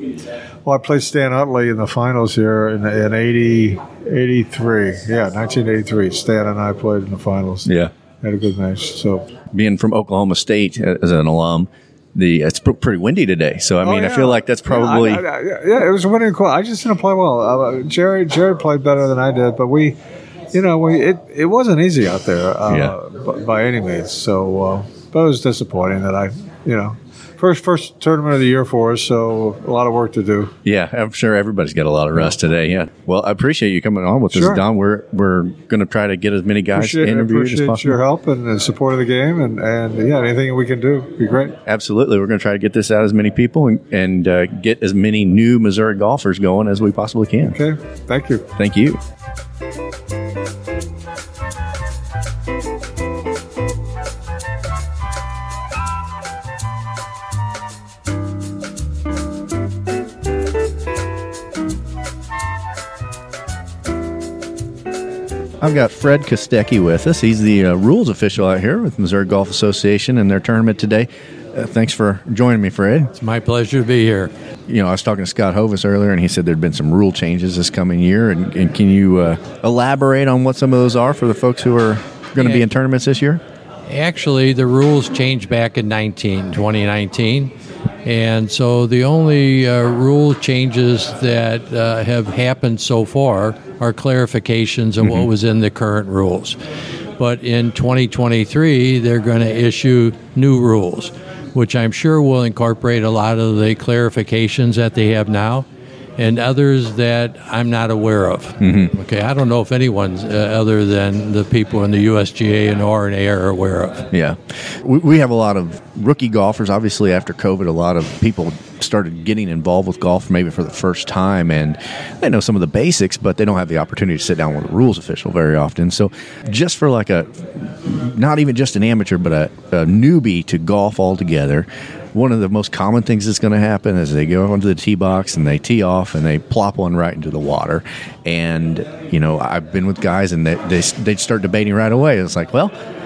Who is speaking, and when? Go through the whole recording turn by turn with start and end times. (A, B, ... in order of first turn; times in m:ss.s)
0:00.6-0:07.7 A
0:08.2-0:09.3 A
0:09.5-0:11.6 B
0:12.2-0:15.2 B
0:13.8-0:20.0 A
0:20.5-0:30.5 A
0:30.6-0:38.0 B
0:34.3-0:34.6 A
0:36.7-0:41.6 A
0:41.6-0:47.5 B
0:47.4-0:48.4 A
0:48.6-0:49.0 B
1:05.6-1:13.1 B
1:13.1-1:14.3 C
1:14.7-1:23.4 B
1:22.4-1:22.7 C
1:23.9-1:27.5 C
1:28.0-1:36.6 C
1:37.2-1:45.6 C
1:46.2-1:54.0 C
1:48.6-1:48.9 B
1:54.1-2:22.7 B